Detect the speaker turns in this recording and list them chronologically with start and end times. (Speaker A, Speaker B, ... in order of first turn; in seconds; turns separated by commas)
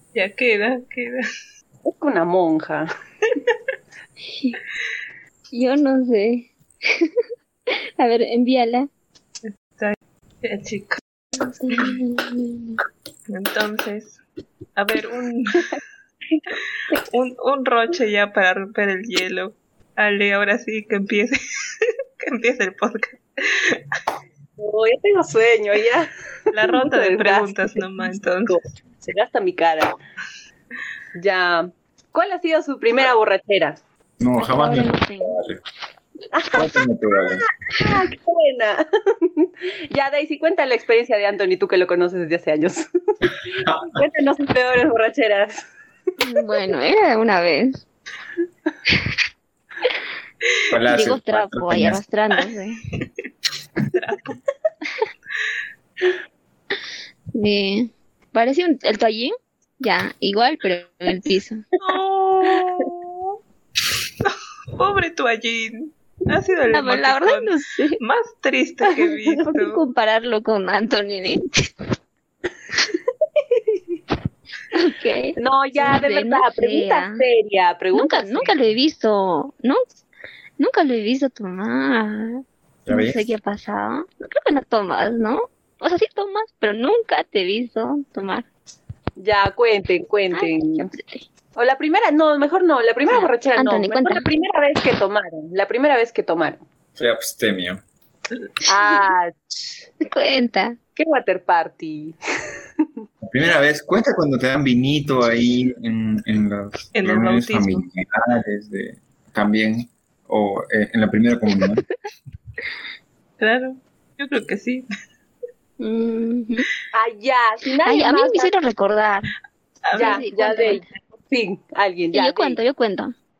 Speaker A: 0.1-1.2, Speaker B: 1.8-2.9, Speaker C: 4.3-4.6, Speaker C: 5.5-7.1, Speaker C: 8.0-8.9, Speaker A: 9.4-11.0, Speaker C: 11.4-12.8, Speaker A: 11.7-11.9, Speaker A: 13.3-14.2, Speaker A: 14.8-15.8, Speaker A: 17.0-23.8, Speaker B: 24.6-26.1, Speaker A: 26.5-28.6, Speaker B: 26.6-30.0, Speaker B: 31.1-33.8, Speaker D: 34.2-35.6, Speaker C: 34.4-35.4, Speaker B: 36.3-42.9, Speaker D: 36.5-37.5, Speaker D: 43.5-43.9, Speaker B: 43.8-45.6, Speaker C: 46.2-47.8, Speaker D: 50.7-52.0, Speaker C: 50.9-52.8, Speaker A: 53.9-54.4, Speaker C: 57.3-61.6, Speaker A: 61.8-63.3, Speaker A: 64.2-69.8, Speaker C: 66.7-68.0, Speaker C: 69.3-71.4, Speaker B: 72.9-73.8, Speaker C: 74.7-77.2, Speaker B: 75.4-78.6, Speaker C: 77.9-79.8, Speaker C: 80.6-88.5, Speaker D: 82.8-83.3, Speaker B: 89.2-90.9, Speaker C: 90.3-91.2, Speaker B: 91.5-96.6, Speaker C: 93.1-94.3, Speaker D: 97.0-97.8, Speaker B: 98.7-99.8, Speaker C: 100.0-100.8, Speaker B: 101.0-102.2, Speaker D: 103.2-111.8, Speaker A: 106.9-107.8, Speaker A: 113.4-114.8, Speaker C: 115.8-116.7, Speaker B: 116.9-118.5, Speaker C: 117.8-119.3, Speaker A: 119.8-120.3, Speaker B: 119.9-122.6, Speaker C: 120.0-120.8, Speaker C: 122.1-123.1